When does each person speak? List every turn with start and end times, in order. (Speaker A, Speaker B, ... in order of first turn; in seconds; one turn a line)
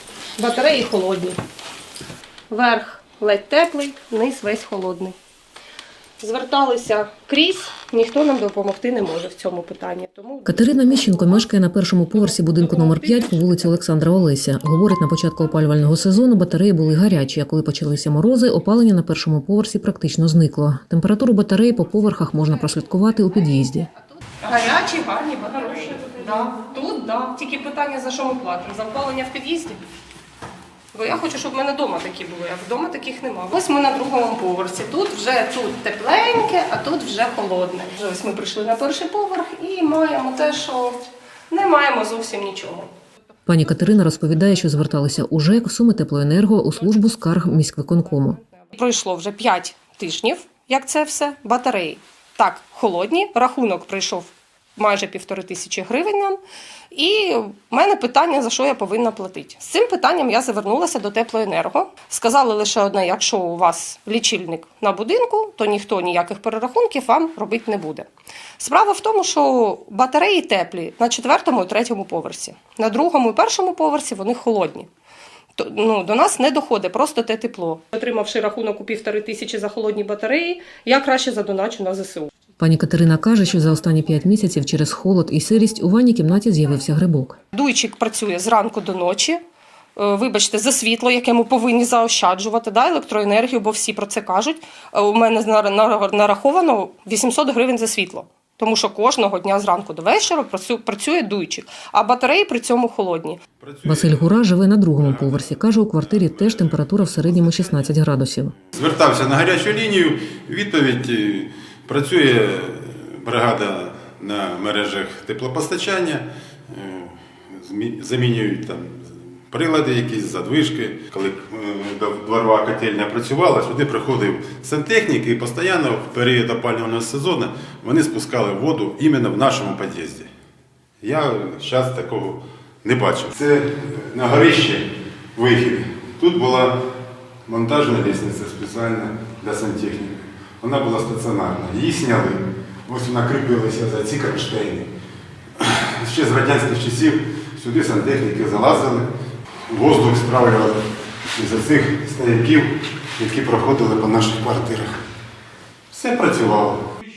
Speaker A: 0.4-1.4
Speaker A: 2.5-5.2
Speaker A: 6.2-11.4
Speaker B: 10.5-23.9
Speaker A: 12.1-13.7
Speaker A: 24.4-29.8
Speaker A: 30.9-41.0
Speaker A: 41.5-42.9
Speaker B: 43.5-48.4
Speaker A: 48.7-56.4
Speaker A: 56.9-68.1
Speaker A: 68.6-74.9
Speaker A: 75.6-82.3
Speaker B: 82.6-87.4
Speaker A: 87.5-89.4
Speaker A: 90.0-103.4
Speaker C: 103.6-104.4
Speaker B: 103.8-108.6
Speaker C: 105.0-108.0
Speaker C: 108.7-130.3
Speaker C: 131.0-136.8
Speaker C: 137.5-144.9
Speaker C: 145.6-149.1
Speaker C: 149.7-154.9
Speaker C: 155.9-156.8